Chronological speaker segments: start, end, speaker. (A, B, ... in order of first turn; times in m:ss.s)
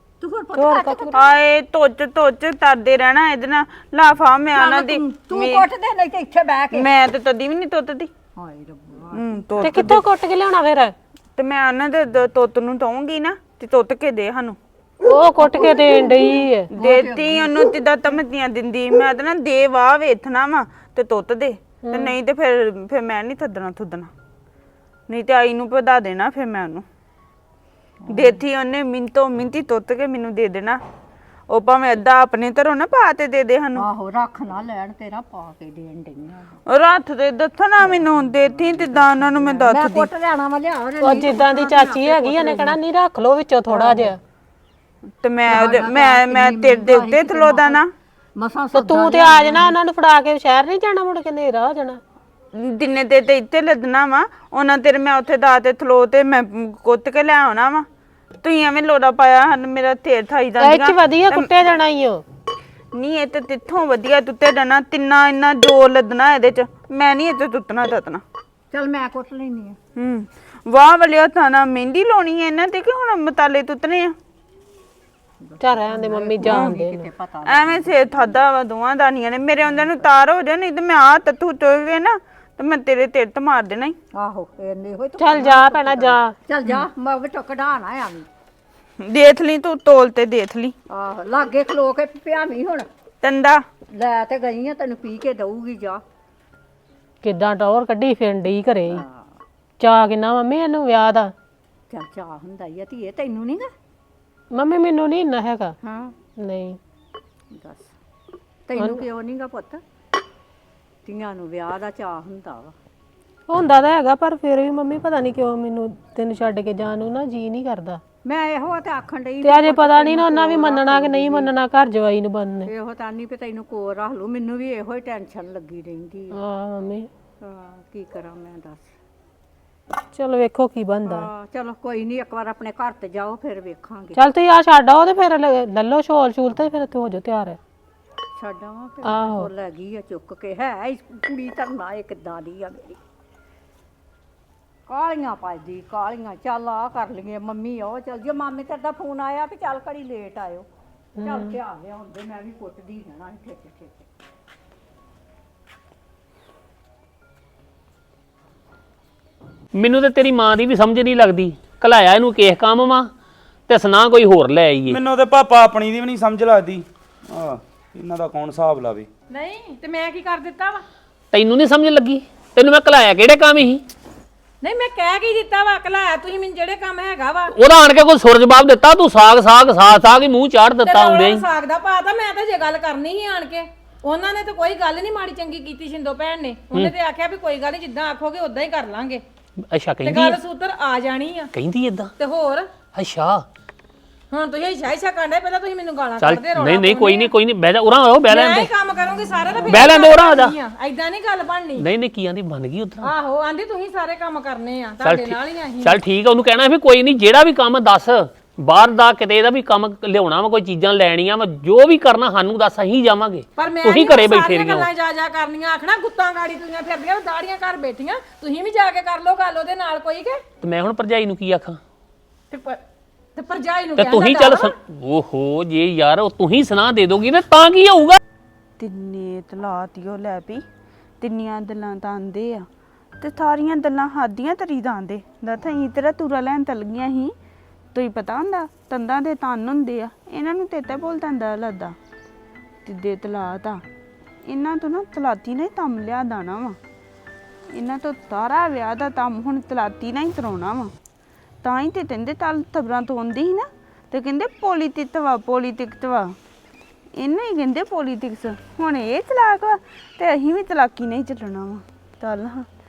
0:00.2-0:01.3 A
0:00.6-0:01.0 B
0:01.1-0:05.6 C
0:04.5-0:06.9 A
0:06.7-0:08.1 C
0:08.4-0:10.0 A
0:09.1-0:10.0 C
0:09.6-0:10.9 B
0:11.4-0:14.6 C
0:15.0-0:16.7 B
0:15.4-0:17.7 A
0:16.7-0:24.1 C
0:21.9-0:22.1 B
0:25.1-0:26.8 C
0:28.0-0:28.4 A
0:28.1-0:30.8 C
0:31.5-0:33.8 C
0:33.7-0:36.6 A
0:36.7-0:40.1 C
0:39.2-0:42.8 A
0:41.0-0:44.2 B
0:43.7-0:44.1 A
0:45.2-0:47.9 C
0:45.5-0:47.8 A
0:48.4-0:49.8 A
0:48.7-0:52.0 B
0:52.5-0:57.9 C
0:58.4-1:01.5 C
1:00.6-1:02.2 B
1:02.9-1:08.2 C
1:08.7-1:09.8 A
1:10.0-1:14.2 C
1:15.4-1:18.4 A
1:15.6-1:17.0 B
1:16.4-1:16.7 C
1:17.4-1:24.0 C
1:19.7-1:20.0 A
1:24.1-1:28.3 A
1:25.2-1:26.3 B
1:29.0-1:30.7 C
1:30.9-1:32.9 A
1:33.2-1:33.6 C
1:33.9-1:36.0 A
1:37.2-1:39.0 B
1:38.9-1:39.4 A
1:39.8-1:41.3 B
1:41.9-1:43.7 A
1:44.5-1:45.8 B
1:45.8-1:46.2 A
1:46.4-1:46.8 B
1:47.5-1:47.9 A
1:48.7-1:49.8 A
1:48.8-1:49.0 B
1:51.0-1:52.7 A
1:53.5-1:58.0 B
1:58.2-2:01.5 A
1:59.4-2:02.7 B
2:02.6-2:06.4 A
2:06.3-2:07.1 B
2:07.4-2:08.9 A
2:10.1-2:11.3 B
2:11.0-2:14.2 A
2:14.2-2:17.6 B
2:18.3-2:23.0 A
2:19.0-2:19.5 B
2:24.9-2:30.7 A
2:31.2-2:31.5 B
2:31.2-2:34.1 A
2:39.8-2:43.1 D
2:43.7-2:45.0 D
2:44.9-2:49.1 E
2:49.3-2:50.8 F
2:51.3-2:53.8 D
2:54.6-2:57.5 F
2:57.5-3:01.4 D
3:00.8-3:09.2 F
3:09.7-3:10.4 D
3:10.0-3:11.5 F
3:11.5-3:12.1 D
3:12.2-3:12.7 F
3:12.9-3:13.4 D
3:14.3-3:17.3 F
3:16.2-3:18.7 D
3:18.3-3:21.9 F
3:19.6-3:20.6 D
3:21.8-3:23.1 D
3:23.0-3:26.0 F
3:25.0-3:34.9 D
3:33.6-3:40.4 F
3:40.6-3:41.8 D
3:42.5-3:42.8 F
3:43.4-3:44.7 F
3:44.0-3:48.2 D
3:48.8-3:50.6 C
3:51.2-3:52.7 C
3:53.2-3:57.3 C
3:57.9-4:02.0 C
4:02.8-4:03.8 C
4:04.4-4:06.8 C
4:07.7-4:10.9 C
4:11.6-4:16.4 C
4:17.2-4:22.7 C